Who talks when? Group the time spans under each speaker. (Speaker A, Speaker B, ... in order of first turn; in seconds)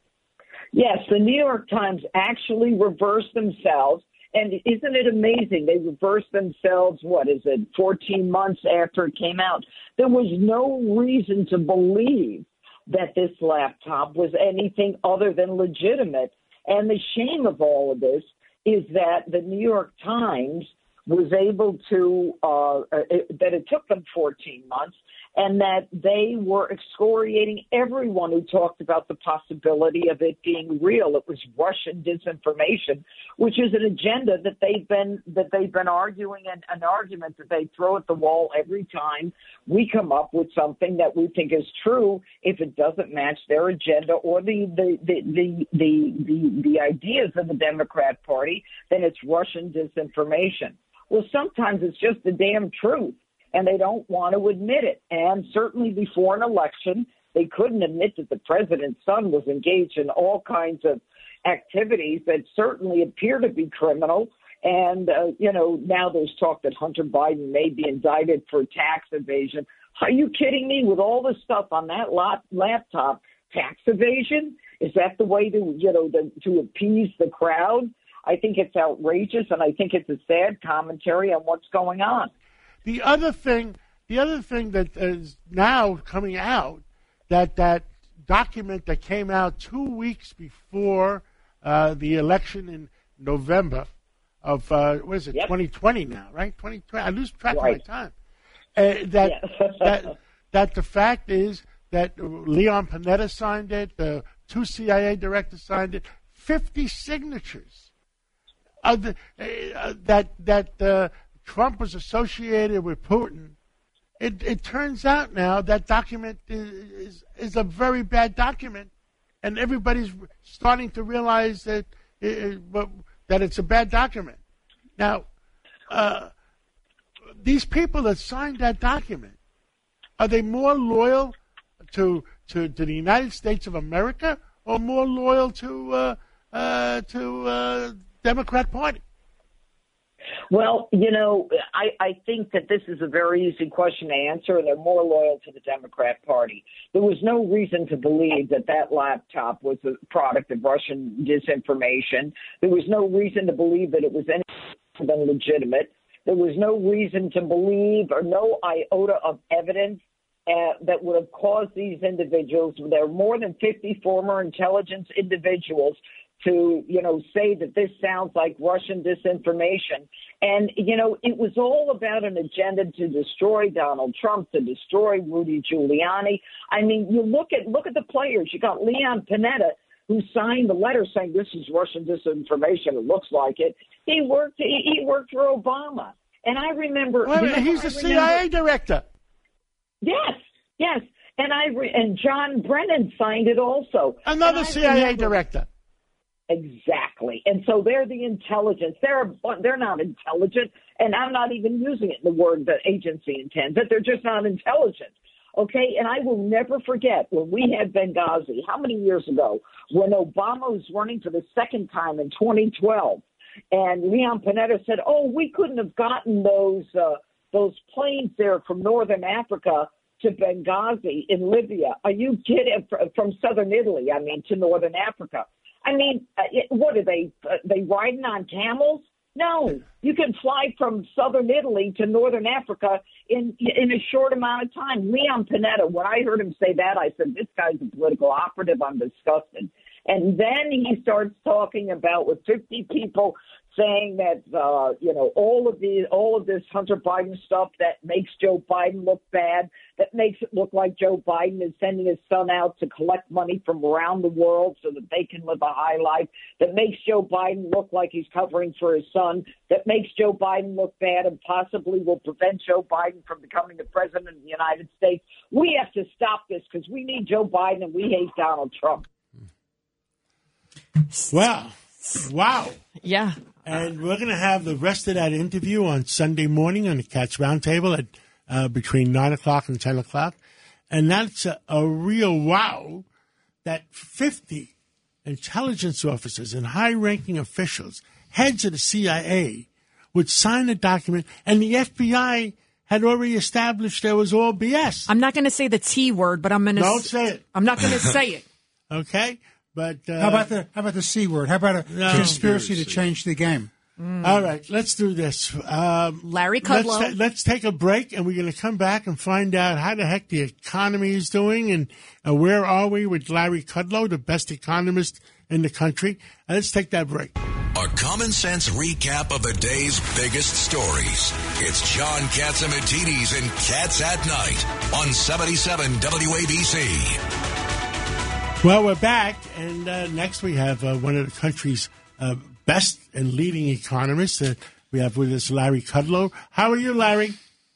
Speaker A: 0.7-82.3, 97.5-97.8, 99.2-100.0, 140.5-188.4, 190.0-195.4, 196.5-269.1
Speaker B: 82.8-93.9, 94.4-98.1, 98.7-107.9, 108.8-113.5, 114.2-118.9, 119.4-124.4, 125.0-125.3, 125.9-126.3, 127.4-129.3, 130.2-131.3, 131.9-139.0, 187.2-189.0, 194.2-195.7, 271.3-272.8, 273.6-280.4, 280.9-283.0, 283.6-284.7, 285.2-295.1, 296.7-297.4, 298.9-300.5, 301.9-303.0, 304.2-317.3, 328.6-337.4
Speaker C: 273.0-273.4, 295.1-298.4, 304.0-304.4, 306.3-307.1
Speaker D: 300.2-303.7
Speaker E: 317.7-327.2